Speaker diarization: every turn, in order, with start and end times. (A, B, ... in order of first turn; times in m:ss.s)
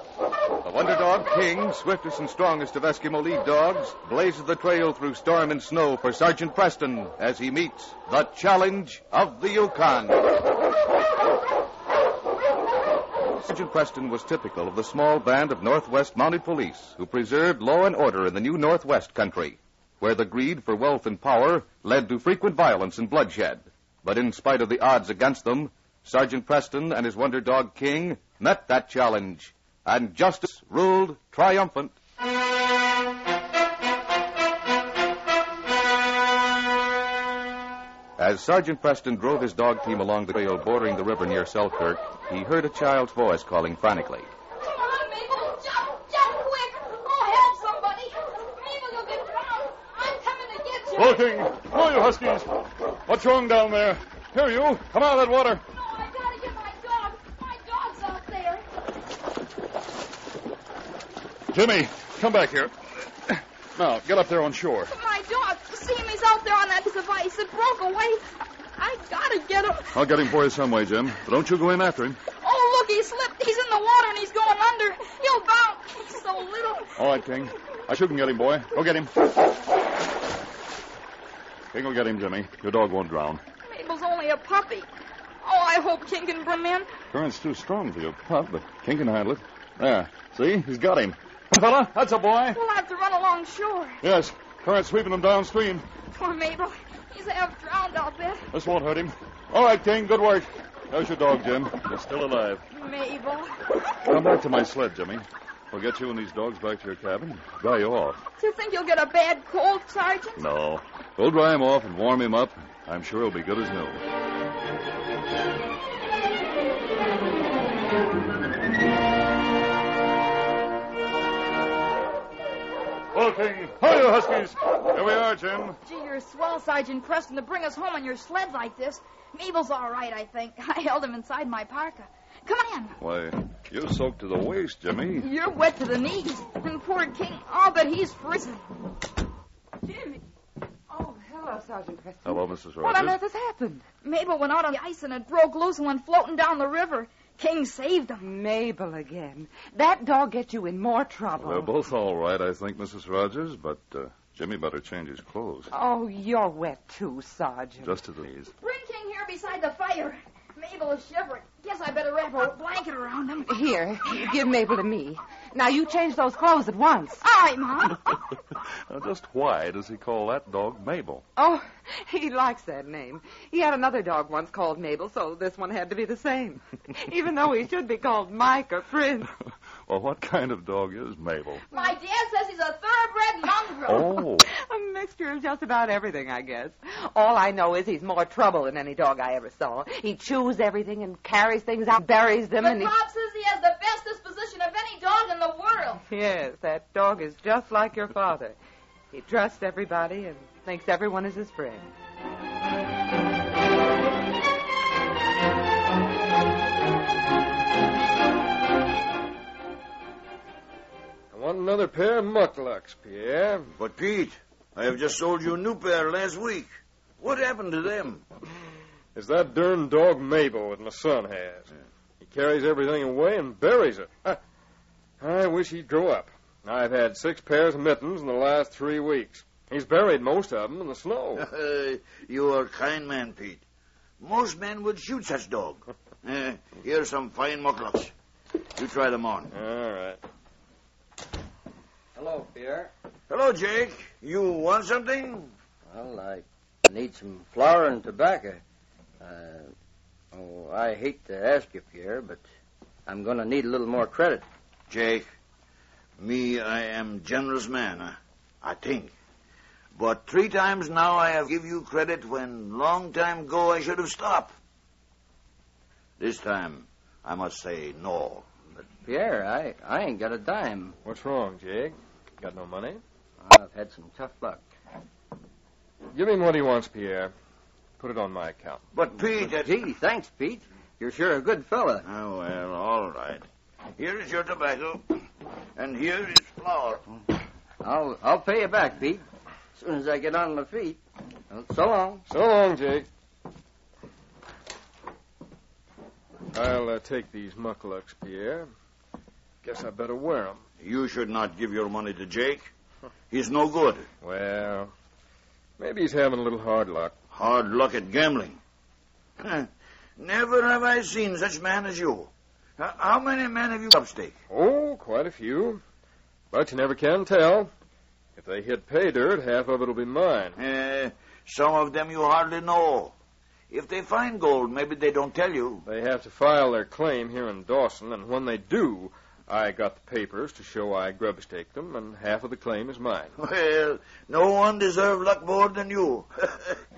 0:00.6-0:10.2 A
0:13.4-0:32.0 A
0:38.2-0:44.3 A
0:44.6-0:51.2 B
0:51.0-0:55.6 C
0:55.7-0:58.6 B
1:01.5-1:02.7 C
1:03.2-1:04.9 C
1:04.9-1:08.2 B
1:08.8-1:10.0 B
1:09.9-1:12.2 C
1:12.4-1:16.9 B
1:17.0-1:19.1 C
1:21.7-1:23.4 C
1:23.6-1:24.9 B
1:25.4-1:26.9 B
1:27.1-1:32.6 C
1:32.5-1:34.0 B
1:34.0-1:35.9 C
1:36.1-1:38.4 B
1:38.5-1:42.6 C
1:42.7-1:43.5 B
1:44.1-1:48.2 C
1:48.4-1:50.4 B
1:50.4-1:54.0 C
2:03.1-2:05.8 C
2:05.8-2:13.0 B
2:13.0-2:15.3 C
2:15.2-2:18.6 B
2:19.9-2:20.2 B
2:20.9-2:23.9 D
2:22.2-2:23.2 C
2:24.0-2:28.3 B
2:28.2-2:31.7 D
2:31.4-2:35.7 C
2:35.7-2:37.9 D
2:37.8-2:38.5 C
2:38.6-2:43.6 B
2:43.5-2:47.2 D
2:47.2-2:48.2 B
2:48.9-2:51.3 C
2:51.4-2:59.3 D
2:59.9-3:01.6 C
3:01.7-3:04.1 B
3:03.9-3:04.5 C
3:04.4-3:12.9 D
3:12.6-3:16.0 B
3:16.1-3:18.6 D
3:19.1-3:21.9 D
3:31.3-3:33.7 E
3:33.8-3:38.2 F
3:39.2-3:44.4 E
3:45.2-3:51.5 E
3:51.4-3:53.6 F
3:54.2-3:58.1 F
3:58.7-3:59.5 F
3:59.5-4:00.2 E
4:02.2-4:02.9 G
4:03.3-4:05.5 F
4:05.9-4:08.6 G
4:09.2-4:09.7 G
4:10.3-4:12.4 G
4:13.1-4:14.4 G
4:14.9-4:15.3 F
4:16.2-4:19.1 F
4:20.0-4:24.5 F
4:26.2-4:28.5 F
4:28.8-4:31.0 G
4:31.0-4:33.0 E
4:33.4-4:34.6 G
4:36.1-4:37.3 E
4:38.0-4:38.8 E
4:38.9-4:39.8 F
4:39.3-4:42.1 G
4:42.0-4:43.4 F
4:44.0-4:47.0 F
4:47.8-4:52.2 G
4:52.3-4:53.1 E
4:56.5-4:58.7 E
4:59.6-5:00.6 E
5:00.8-5:02.7 F
5:03.3-5:04.1 F
5:04.2-5:04.9 E
5:05.8-5:07.1 E
5:07.3-5:08.6 F
5:09.4-5:14.4 F
5:14.5-5:15.8 E
5:16.5-5:17.7 E
5:18.4-5:20.6 E
5:20.6-5:23.2 F
5:23.7-5:25.8 F
5:25.8-5:33.3 E
5:33.4-5:36.8 F